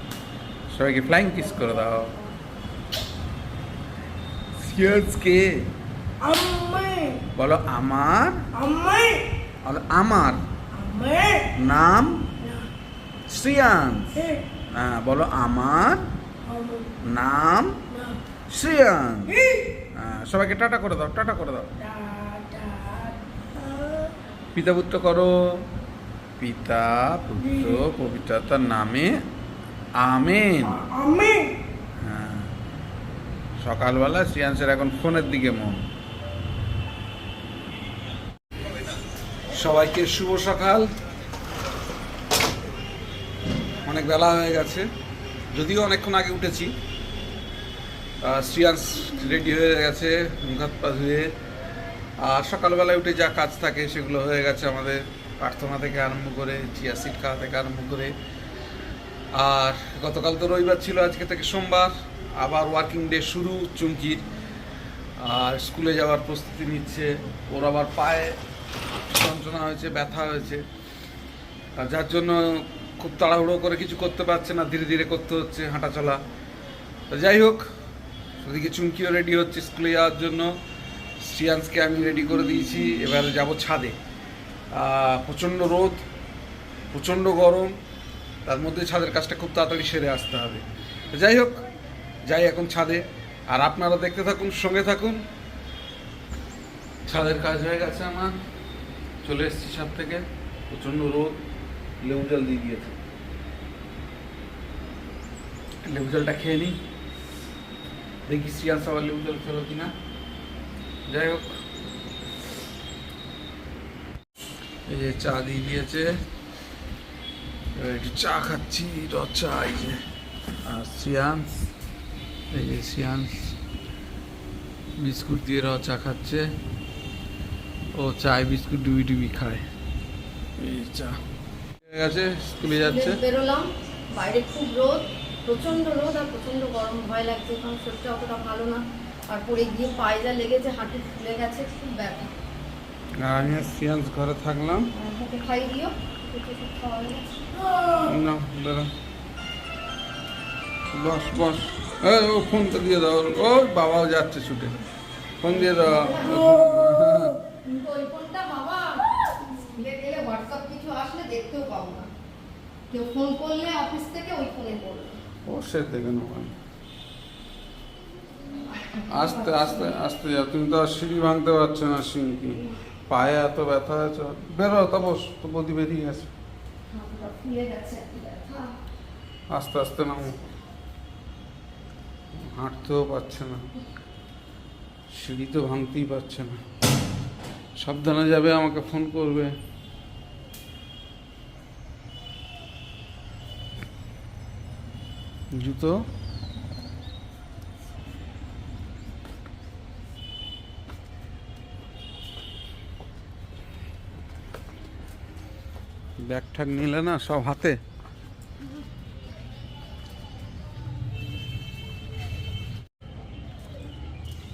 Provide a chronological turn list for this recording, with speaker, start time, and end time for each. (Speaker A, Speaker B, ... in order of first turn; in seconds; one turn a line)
Speaker A: 0.7-2.2
Speaker A: 4.6-5.7
Speaker B: 6.3-7.2
Speaker A: 7.3-8.5
Speaker B: 8.7-9.2
Speaker A: 9.7-10.4
Speaker B: 10.8-11.5
Speaker A: 11.5-12.3
Speaker A: 13.3-16.0
Speaker A: 17.0-17.8
Speaker A: 18.5-19.4
Speaker A: 19.9-21.7
Speaker B: 22.0-23.1
Speaker A: 24.5-25.3
Speaker A: 26.4-29.1
Speaker A: 30.0-30.9
Speaker B: 30.9-31.5
Speaker A: 32.0-32.5
Speaker A: 33.6-35.9
Speaker A: 39.5-40.9
Speaker A: 43.9-44.9
Speaker A: 45.5-46.8
Speaker A: 48.2-51.3
Speaker A: 52.2-58.1
Speaker A: 59.3-64.2
Speaker A: 65.2-68.4
Speaker A: 69.1-70.7
Speaker A: 71.8-76.2
Speaker A: 77.1-77.7
Speaker A: 78.4-80.5
Speaker A: 81.2-84.0
Speaker A: 84.7-86.0
Speaker A: 86.9-87.7
Speaker A: 88.5-91.7
Speaker A: 92.3-95.3
Speaker A: 97.0-98.3
Speaker A: 99.2-101.4
Speaker A: 102.0-102.9
Speaker A: 105.8-106.8
Speaker A: 108.3-109.9
Speaker A: 111.1-111.5
Speaker A: 114.9-116.2
Speaker A: 117.8-120.0
Speaker A: 120.7-121.7
Speaker A: 122.5-123.6
Speaker A: 125.0-126.5
Speaker A: 128.0-129.6
Speaker A: 130.6-131.2
Speaker A: 131.9-133.2
Speaker C: 132.7-142.3
Speaker A: 143.2-144.9
Speaker C: 144.9-147.3
Speaker A: 148.0-148.9
Speaker A: 150.9-154.8
Speaker A: 155.4-157.4
Speaker C: 155.5-156.5
Speaker C: 157.6-159.0
Speaker C: 159.6-162.1
Speaker C: 162.9-165.2
Speaker A: 165.4-166.6
Speaker C: 168.7-170.0
Speaker A: 169.1-176.3
Speaker C: 176.9-178.7
Speaker A: 179.5-180.4
Speaker A: 182.3-183.6
Speaker A: 185.1-186.6
Speaker A: 187.8-189.5
Speaker A: 195.6-196.0
Speaker A: 206.2-207.8